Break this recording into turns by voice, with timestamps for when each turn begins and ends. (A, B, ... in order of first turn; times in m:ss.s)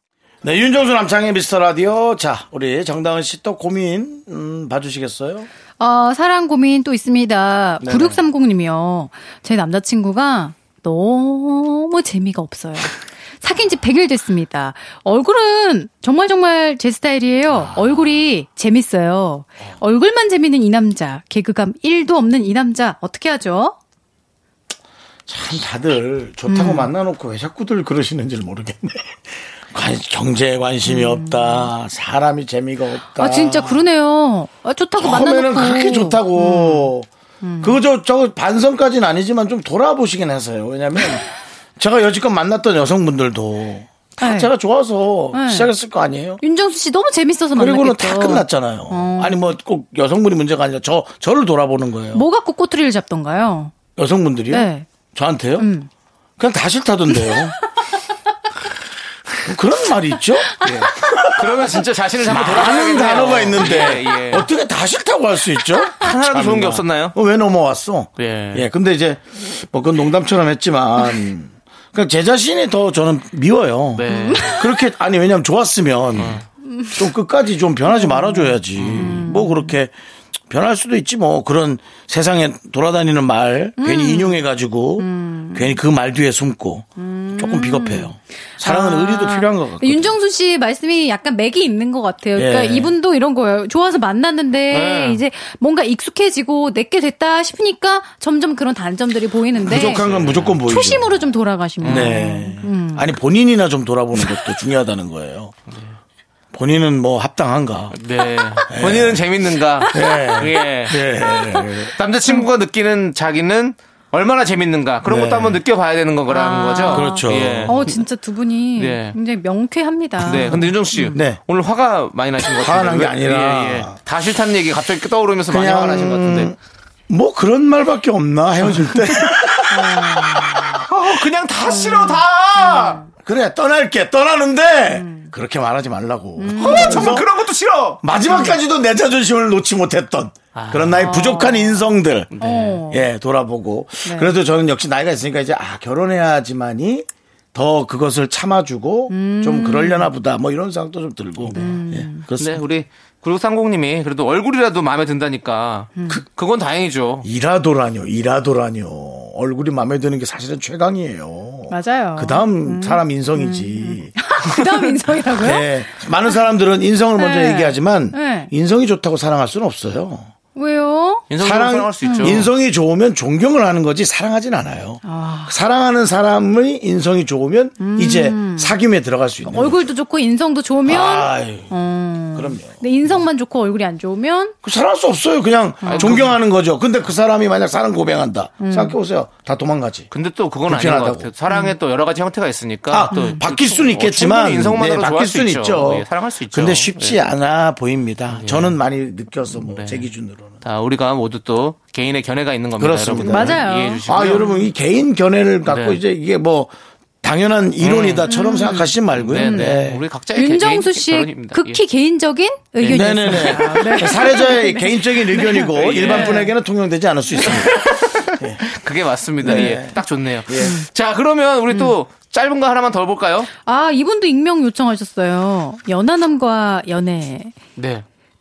0:00.4-0:05.5 A
0:05.8-0:23.8 B
0:07.8-0:08.2 A
0:25.3-0:33.8 A
0:26.5-0:26.9 B
0:30.8-0:31.7 B
0:33.1-0:36.9 B
0:35.0-0:37.1 A
0:37.4-0:37.8 B
0:37.6-0:41.2 A
0:41.8-0:46.4 A
0:44.2-0:44.5 B
0:45.3-0:45.7 B
0:46.4-0:49.5 B
0:47.5-0:52.2 A
0:52.1-0:53.7 B
0:54.0-0:55.7 A
0:54.5-0:54.8 B
0:55.6-0:55.9 B
0:56.4-0:57.6 A
0:57.1-0:57.4 B
0:59.4-1:16.4 A
1:00.6-1:04.5 C
1:06.0-1:07.1 C
1:08.2-1:08.7 C
1:14.0-1:14.7 C
1:14.1-1:14.6 B
1:16.2-1:16.4 C
1:16.6-1:17.0 B
1:16.9-1:19.9 A
1:17.9-1:19.7 B
1:18.8-1:19.2 C
1:20.5-1:30.2 A
1:23.8-1:24.4 B
1:25.0-1:25.8 B
1:27.0-1:40.0 B
1:32.4-1:32.9 A
1:34.7-1:35.2 C
1:39.6-1:41.2 A
1:39.7-1:40.6 C
1:40.6-1:43.1 B
1:41.8-1:42.2 C
1:41.8-1:45.5 A
1:46.5-1:48.0 A
1:47.9-1:51.0 C
1:48.2-1:48.7 B
1:48.7-1:49.3 A
1:49.8-1:50.3 B
1:49.9-1:51.9 A
1:51.3-1:51.6 B
1:51.9-1:58.0 C
1:55.0-1:55.6 A
1:56.3-2:01.2 B
1:56.8-1:57.8 A
1:58.8-1:59.2 C
2:00.2-2:06.5 C
2:00.2-2:01.4 A
2:02.4-2:04.0 A
2:05.5-2:06.6 A
2:07.1-2:10.8 A
2:08.8-2:09.2 C
2:09.7-2:10.8 B
2:10.8-2:13.0 C
2:11.6-2:13.1 B
2:13.1-2:17.3 A
2:14.9-2:15.3 B
2:16.4-2:17.2 B
2:16.6-2:18.0 C
2:18.0-2:22.3 A
2:18.3-2:18.6 B
2:20.5-2:21.1 C
2:20.9-2:23.1 B
2:22.3-2:22.8 C
2:22.9-2:32.6 A
2:24.0-2:24.3 B
2:29.1-2:30.1 B
2:31.5-2:32.2 B
2:32.4-2:37.2 C
2:36.0-2:36.2 B
2:37.2-2:44.1 A
2:41.7-2:45.7 B
2:45.3-2:50.3 A
2:47.2-2:48.5 B
2:50.5-2:51.3 B
2:51.3-2:52.5 C
2:51.4-2:59.9 A
2:52.0-2:52.4 B
2:55.0-2:55.5 B
2:57.8-2:58.7 B
2:59.4-3:04.6 B
3:00.8-3:01.7 A
3:02.3-3:02.8 A
3:04.6-3:10.1 A
3:05.8-3:06.3 B
3:05.8-3:06.4 C
3:08.6-3:09.0 B
3:10.1-3:17.2 C
3:10.7-3:11.3 A
3:11.5-3:11.7 B
3:12.9-3:20.6 A
3:13.1-3:13.4 B
3:18.3-3:18.8 C
3:19.5-3:20.1 C
3:20.6-3:24.4 C
3:22.8-3:30.0 A
3:23.2-3:24.7 B
3:25.7-3:26.0 C
3:27.8-3:28.3 C
3:28.3-3:29.7 B
3:29.1-3:31.8 C
3:30.3-3:36.5 B
3:32.8-3:38.6 A
3:32.8-3:33.9 C
3:35.7-3:36.5 C
3:37.4-3:43.5 C
3:39.4-3:40.7 A
3:40.6-3:40.8 B
3:43.6-3:47.6 B
3:47.8-3:48.0 C